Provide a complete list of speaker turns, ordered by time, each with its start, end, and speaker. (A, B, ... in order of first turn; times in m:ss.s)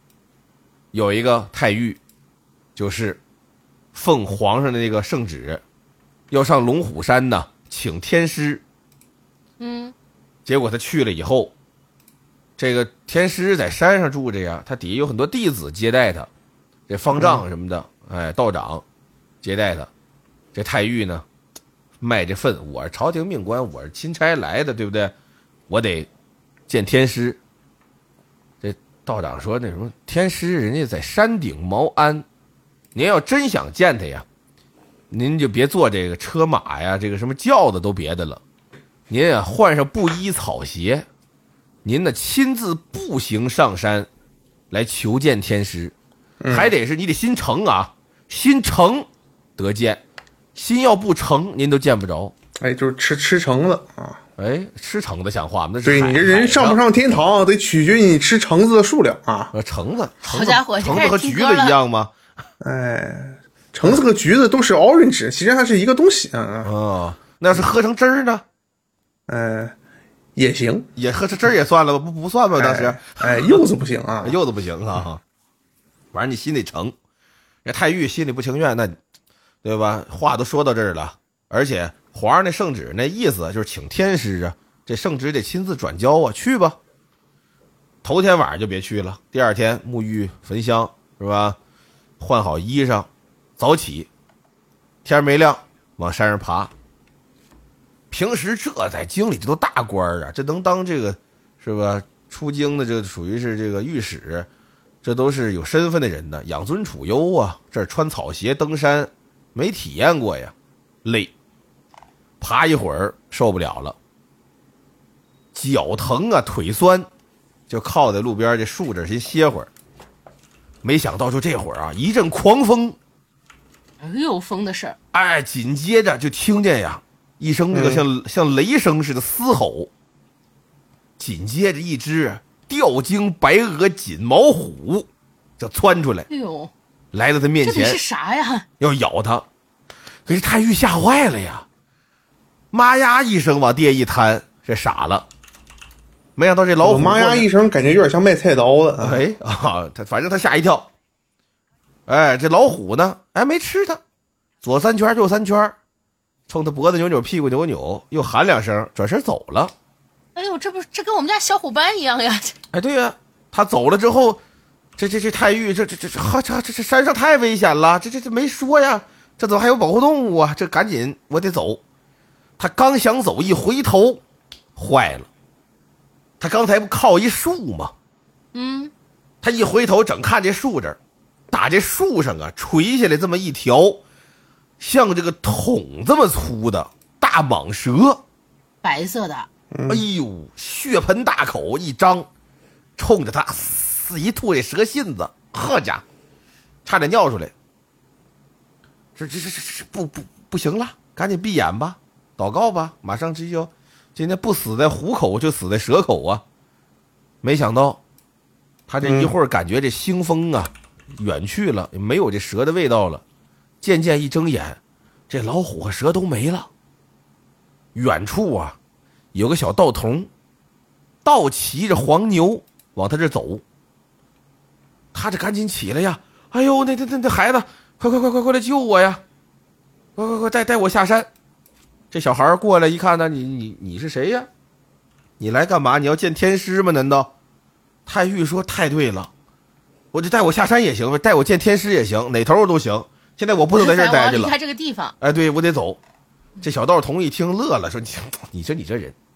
0:00.9-0:02.0 A
0:02.8-0:03.2 A
0:03.9-0:05.6 A
0:06.3-0:08.6 A
0:09.6-0:09.9 B
0:10.4-0:11.5 A
0:12.6-0:16.3 A
0:16.9-0:18.8 A
0:17.1-0:17.4 C
0:19.4-0:19.9 A
0:20.5-0:21.2 A
0:22.0-0:25.1 A
0:25.7-0:26.1 A
0:26.7-0:27.4 A
0:28.6-0:32.2 A
0:32.9-0:34.2 A
0:35.1-0:38.4 A
0:39.1-0:41.0 A
0:41.8-0:44.1 A
0:44.7-0:45.9 A
0:46.4-0:46.7 C
0:46.5-0:50.0 A
0:50.5-0:52.3 A
0:52.6-0:54.2 C
0:54.4-0:56.8 A
0:55.8-0:59.5 C
0:59.5-1:02.1 A
1:00.2-1:01.8 B
1:02.6-1:06.7 C
1:06.6-1:08.4 A
1:09.3-1:09.8 C
1:10.4-1:10.9 C
1:11.0-1:13.6 A
1:12.5-1:14.4 C
1:14.2-1:15.2 A
1:16.1-1:16.9 A
1:17.6-1:19.0 A
1:19.6-1:26.8 A
1:28.0-1:31.6 A
1:32.2-1:34.1 A
1:35.0-1:36.7 A
1:38.1-1:44.5 A
1:45.0-1:50.5 A
1:51.0-1:51.3 A
1:52.4-1:54.0 A
1:55.5-1:57.1 A
1:57.7-1:59.7 A
2:00.8-2:03.0 A
2:04.0-2:05.0 B
2:05.1-2:09.9 A
2:07.7-2:08.0 C
2:11.2-2:15.1 A
2:15.6-2:16.3 A
2:16.3-2:16.7 B
2:17.1-2:18.0 A
2:17.6-2:18.7 B
2:18.8-2:19.4 A
2:20.2-2:21.6 A
2:22.7-2:25.3 A
2:26.4-2:27.5 A
2:26.8-2:29.2 C
2:29.0-2:30.9 A
2:32.1-2:34.0 A
2:34.6-2:35.7 A
2:36.5-2:39.7 A
2:40.3-2:42.6 B
2:42.7-2:44.4 A
2:45.0-2:51.8 A
2:52.6-2:54.2 A
2:54.8-2:55.3 A
2:56.4-2:57.9 A
2:58.5-2:58.9 B
2:59.4-3:01.0 A
3:01.5-3:04.0 A
3:04.8-3:08.2 A
3:08.8-3:09.5 B
3:09.7-3:10.0 C
3:09.9-3:12.3 A
3:13.0-3:16.0 A
3:16.8-3:17.5 A
3:19.2-3:26.4 A
3:27.4-3:28.0 A
3:28.9-3:33.2 A
3:29.0-3:29.3 C
3:33.8-3:34.8 A
3:35.3-3:36.7 A
3:37.9-3:38.8 A
3:39.3-3:40.3 A
3:41.2-3:43.6 A
3:45.1-3:49.2 A
3:50.2-3:51.3 A
3:52.1-3:54.5 A
3:55.4-3:57.3 A
3:58.0-3:59.3 A
4:00.1-4:04.5 A
4:03.7-4:05.1 B
4:05.2-4:06.0 A
4:06.6-4:09.1 A